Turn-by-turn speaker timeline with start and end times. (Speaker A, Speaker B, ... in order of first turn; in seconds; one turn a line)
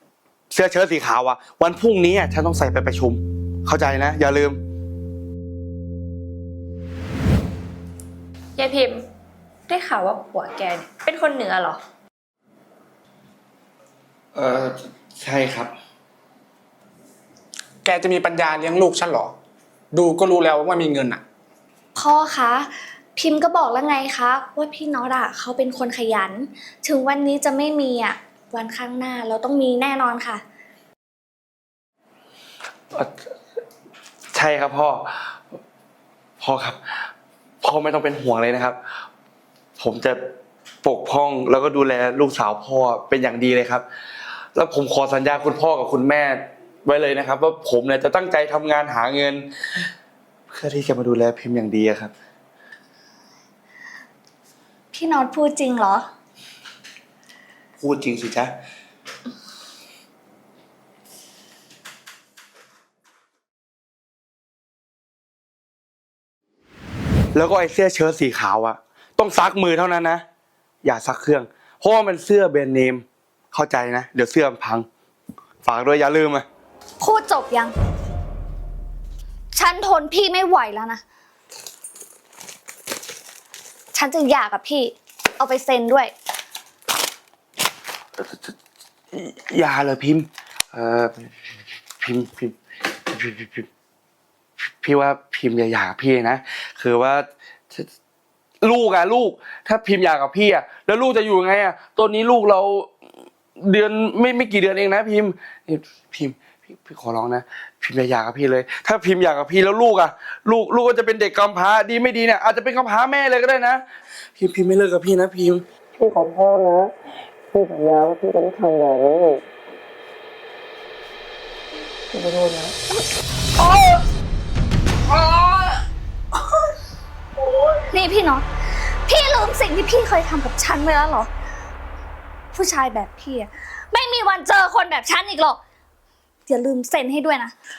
Speaker A: 0.5-4.6
Speaker B: 8.7-9.0
Speaker B: 9.7-11.8
Speaker A: 14.3-15.7
Speaker C: 17.9-19.3
Speaker C: 19.9-21.2
Speaker D: 21.9-30.4
Speaker A: 34.3-35.4
Speaker A: 36.4-37.1
Speaker A: 37.6-38.8
Speaker A: 39.8-40.3
Speaker A: 40.8-43.8
Speaker A: 44.5-49.8
Speaker A: 50.5-52.1
Speaker D: 54.9-56.1
Speaker A: 57.8-58.5
Speaker A: 67.3-70.2
Speaker A: 70.8-74.8
Speaker A: 75.6-76.4
Speaker D: 77.0-77.7
Speaker D: 79.5-81.0
Speaker D: 83.9-86.1
Speaker A: 88.2-88.5
Speaker A: 89.1-91.3
Speaker A: 92.0-93.7
Speaker A: 94.8-97.9
Speaker A: 98.6-102.9
Speaker A: 103.6-113.8
Speaker A: 114.4-115.7
Speaker E: 116.0-116.9
Speaker E: 117.5-119.4
Speaker E: 122.1-122.8
Speaker A: 125.1-125.8
Speaker D: 127.9-128.5
Speaker D: 129.1-131.3
Speaker D: 132.5-135.6
Speaker D: 136.5-137.5